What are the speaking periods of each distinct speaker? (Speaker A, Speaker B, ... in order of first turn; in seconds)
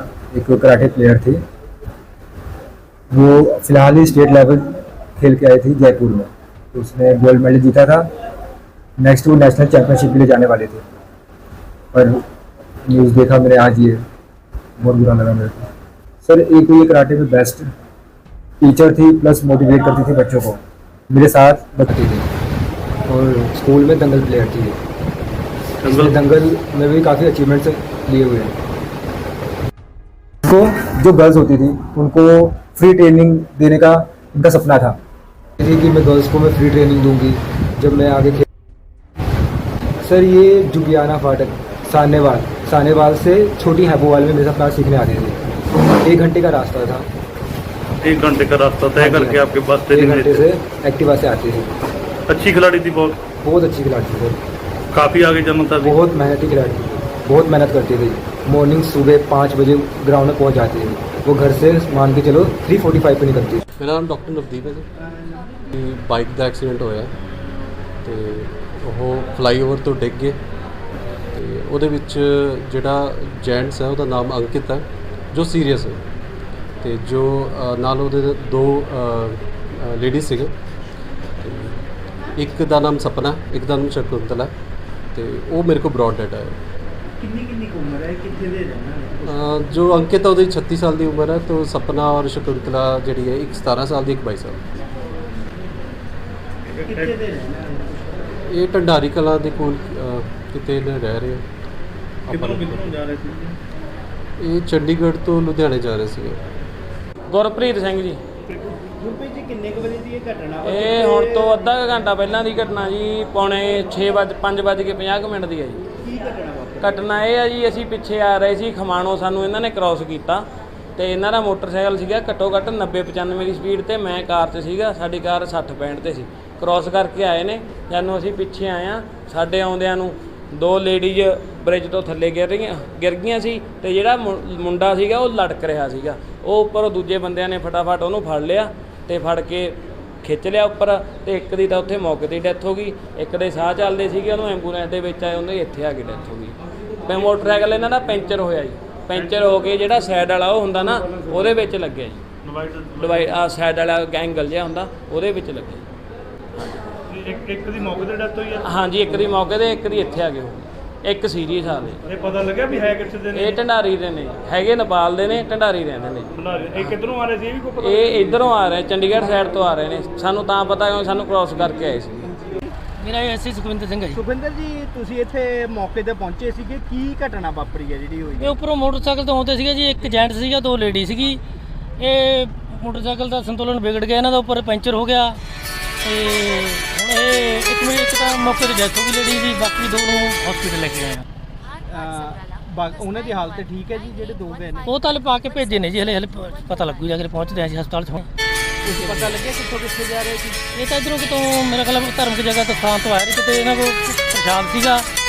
Speaker A: 0.3-1.4, 21.9-22.3, 23.1-24.8, 25.8-28.5, 30.5-35.0, 35.6-38.5, 40.0-45.4, 46.0-47.1, 49.0-51.7, 53.4-54.4, 55.8-63.6
Speaker B: 3.1-4.6, 5.2-8.0, 9.0-10.8, 11.9-12.2, 12.9-14.0, 14.8-15.6, 16.2-17.6, 18.6-20.6, 21.1-21.9
Speaker C: 25.8-26.2, 48.0-50.5, 52.3-53.2, 54.9-56.0, 96.7-97.1, 102.3-103.5, 149.2-149.5, 152.4-153.3, 157.1-158.7, 162.1-163.6, 166.3-168.5
Speaker D: 63.8-64.9, 65.7-67.1, 68.0-70.4, 71.3-76.0, 76.8-80.5, 81.4-81.8, 82.4-84.5, 85.2-86.6, 89.2-94.6, 98.5-101.4, 102.3-102.9, 104.4-106.4
Speaker E: 87.2-89.3, 96.8-98.3, 108.7-111.7, 116.0-117.0, 174.1-178.6, 191.9-194.9, 198.8-200.6
Speaker F: 107.3-108.2, 110.7-115.8, 116.8-120.5, 121.0-152.2, 153.0-155.8, 156.6-156.8, 158.6-162.0, 163.3-166.3, 167.8-172.4
Speaker G: 173.0-174.2, 178.4-181.4, 182.0-185.4, 186.0-191.2, 194.9-198.3, 199.0-199.3, 200.7-205.1